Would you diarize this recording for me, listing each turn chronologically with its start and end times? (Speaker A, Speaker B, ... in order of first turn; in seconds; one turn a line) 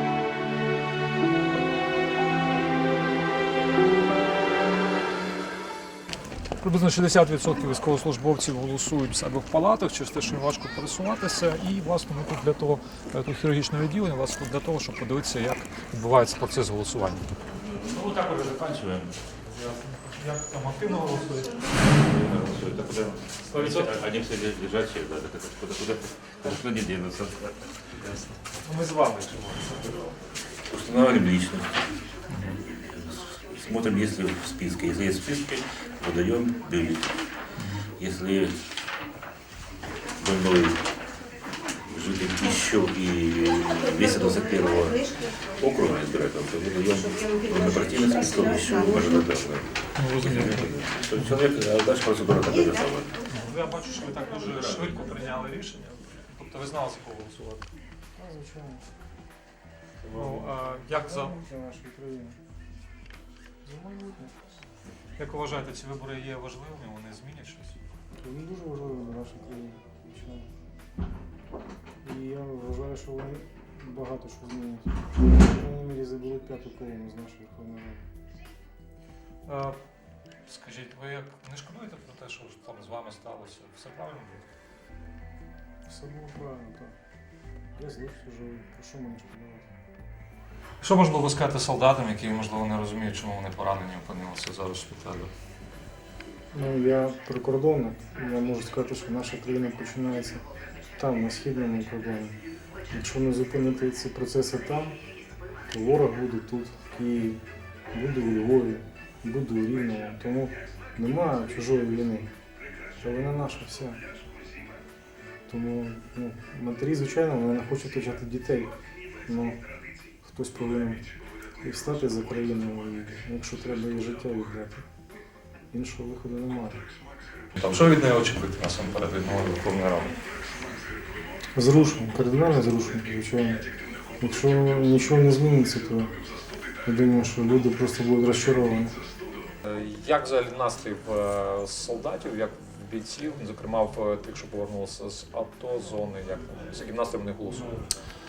Speaker A: 6.6-17.3
Speaker B: 17.6-19.1
Speaker A: 19.5-21.7
Speaker B: 21.9-27.7
Speaker A: 23.5-23.9
Speaker A: 28.0-30.0
Speaker B: 30.6-31.8
Speaker A: 32.3-32.6
Speaker B: 32.6-37.1
Speaker B: 38.0-38.6
Speaker B: 40.2-40.8
Speaker B: 41.9-53.1
Speaker A: 50.0-50.7
Speaker A: 53.3-57.7
Speaker C: 58.2-58.9
Speaker C: 60.0-62.4
Speaker A: 60.1-61.3
Speaker C: 63.6-64.3
Speaker A: 65.2-67.8
Speaker C: 68.2-70.5
Speaker C: 72.0-78.1
Speaker A: 79.4-79.8
Speaker A: 80.5-84.5
Speaker C: 85.9-87.0
Speaker C: 87.7-89.7
Speaker A: 90.8-95.3
Speaker C: 96.5-100.4
Speaker C: 101.0-102.4
Speaker C: 102.9-105.0
Speaker C: 105.7-107.4
Speaker C: 107.9-112.3
Speaker C: 113.0-114.0
Speaker C: 115.5-118.7
Speaker C: 119.2-119.6
Speaker C: 120.2-121.0
Speaker C: 121.6-124.8
Speaker C: 125.7-126.8
Speaker A: 127.5-130.1
Speaker C: 131.5-133.6
Speaker C: 134.2-136.1
Speaker C: 136.8-138.9
Speaker A: 139.6-147.9